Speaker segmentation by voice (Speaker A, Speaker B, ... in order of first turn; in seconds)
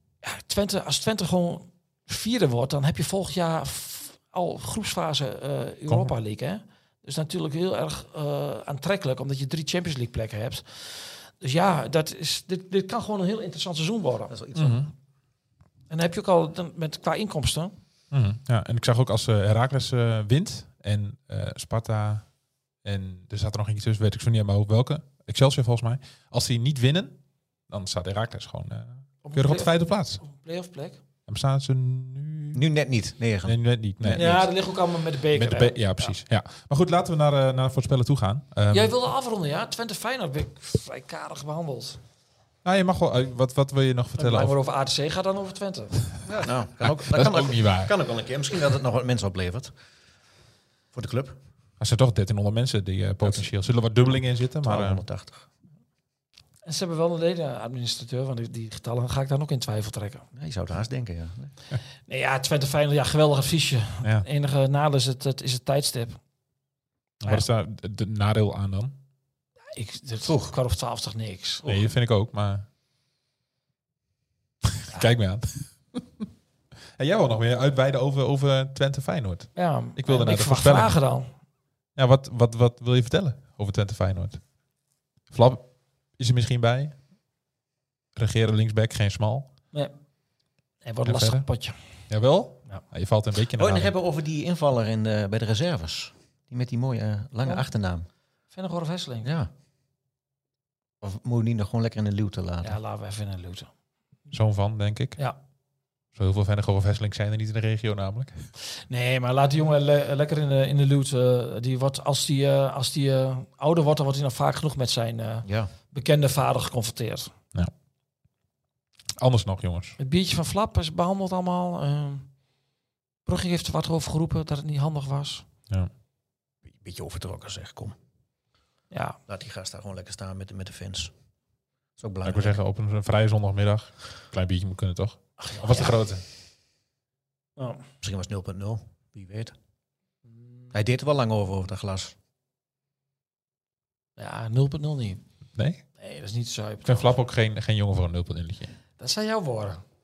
Speaker A: 0.2-14.3, 15.9-17.8, 29.2-31.0, 34.0-36.1, 38.7-42.0, 44.2-46.0, 56.6-60.2, 62.1-66.2, 69.7-71.8, 79.6-81.3, 90.8-91.8, 98.5-99.3, 102.6-103.7, 108.9-117.3, 120.0-122.3, 123.3-125.5, 128.9-129.2, 135.4-136.0, 137.6-137.8, 140.3-140.7, 144.2-145.2, 146.0-147.2, 149.0-149.8
Speaker B: 5.9-6.1, 14.6-14.9, 18.1-22.3, 22.8-27.2, 27.7-30.2, 31.3-32.6, 33.5-34.5, 35.3-38.9, 42.6-44.5, 46.8-47.9, 51.8-55.0, 67.2-68.9, 71.6-72.7, 74.8-76.0, 77.0-81.0, 82.0-84.4, 85.3-85.7, 86.2-87.0, 88.2-89.5, 91.0-91.5, 92.1-93.9, 104.3-105.2, 106.2-108.3, 119.2-120.0, 132.2-136.2, 145.6-145.8, 146.9-148.7
Speaker C: 14.3-14.8, 32.5-33.6, 46.3-49.7, 50.9-51.4, 53.2-53.5, 54.6-55.5, 60.4-61.5, 70.2-70.5, 93.5-98.1, 99.2-99.5, 101.0-102.8, 115.5-115.7, 126.7-127.9, 129.3-131.1, 132.0-132.6, 138.0-139.5, 140.7-142.2